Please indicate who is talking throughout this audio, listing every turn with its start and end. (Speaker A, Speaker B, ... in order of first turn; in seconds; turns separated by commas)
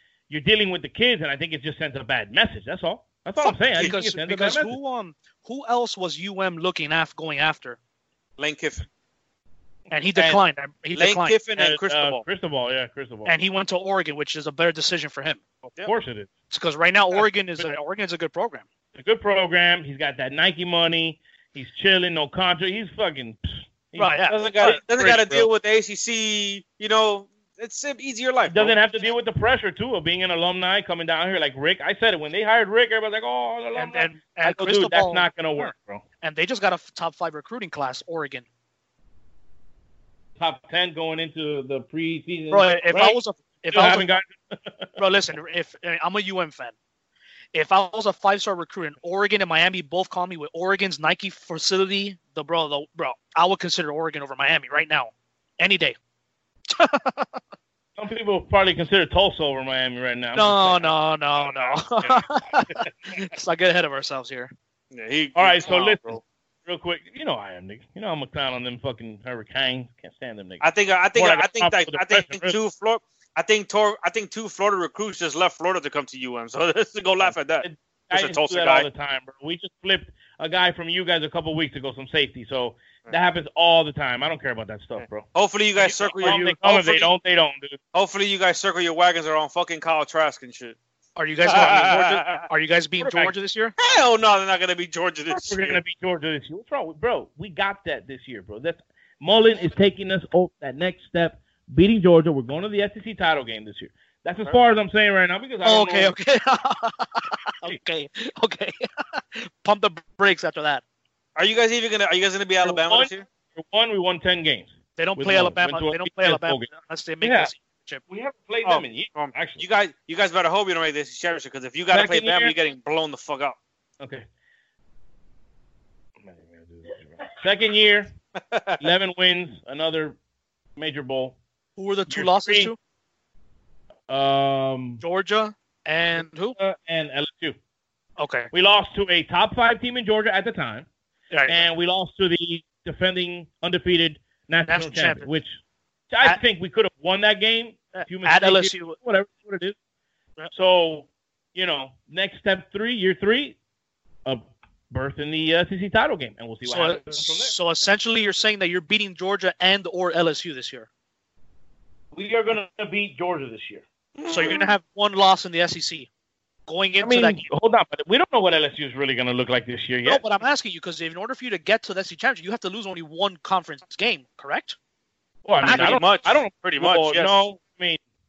Speaker A: 0.3-4.8, Speaker B: 3.4-7.8, Speaker C: 8.4-8.9, Speaker B: 9.9-11.4, Speaker A: 10.2-10.4, Speaker C: 11.0-12.2, Speaker A: 11.6-13.3, Speaker B: 13.3-15.4, Speaker A: 15.8-16.3, Speaker B: 16.5-18.6, Speaker A: 17.1-17.6, Speaker A: 18.9-25.5, Speaker B: 24.0-24.4, Speaker C: 24.4-28.7, Speaker A: 28.5-36.0, Speaker B: 33.8-38.5, Speaker A: 40.4-44.9, Speaker B: 42.5-44.1, Speaker B: 45.0-46.8, Speaker B: 47.5-56.0, Speaker B: 56.7-57.4, Speaker A: 58.0-61.0, Speaker B: 60.3-64.5, Speaker A: 61.7-62.3, Speaker C: 64.9-66.2, Speaker A: 65.3-70.6, Speaker C: 70.6-78.9, Speaker A: 71.2-72.6, Speaker A: 77.2-87.8, Speaker C: 85.3-87.1, Speaker C: 87.9-90.8, Speaker B: 91.2-93.7, Speaker C: 91.5-92.5, Speaker C: 93.8-95.8, Speaker A: 95.3-106.2, Speaker B: 105.6-110.8, Speaker C: 111.4-113.2, Speaker A: 112.6-116.7, Speaker B: 115.0-118.0, Speaker A: 117.2-117.5, Speaker A: 118.1-119.7, Speaker C: 118.6-123.6, Speaker A: 121.9-122.5, Speaker A: 124.0-124.3, Speaker A: 126.2-128.1, Speaker C: 128.5-128.8, Speaker A: 128.8-130.2, Speaker A: 130.8-131.4, Speaker B: 131.8-132.8, Speaker A: 132.1-132.7, Speaker A: 134.1-135.0, Speaker B: 135.0-136.6, Speaker A: 136.6-137.6, Speaker B: 138.2-138.5, Speaker A: 138.5-140.9, Speaker B: 141.3-141.6, Speaker A: 141.5-145.6, Speaker B: 144.7-145.3, Speaker A: 146.1-149.8, Speaker B: 147.9-149.0, Speaker A: 150.5-153.6, Speaker A: 154.2-157.5, Speaker B: 156.7-160.9, Speaker A: 162.1-163.8, Speaker C: 164.2-164.7, Speaker B: 164.3-166.1, Speaker B: 166.7-167.4, Speaker A: 167.0-170.2, Speaker B: 170.1-174.8, Speaker A: 175.4-178.0, Speaker B: 175.6-176.0, Speaker C: 175.7-177.4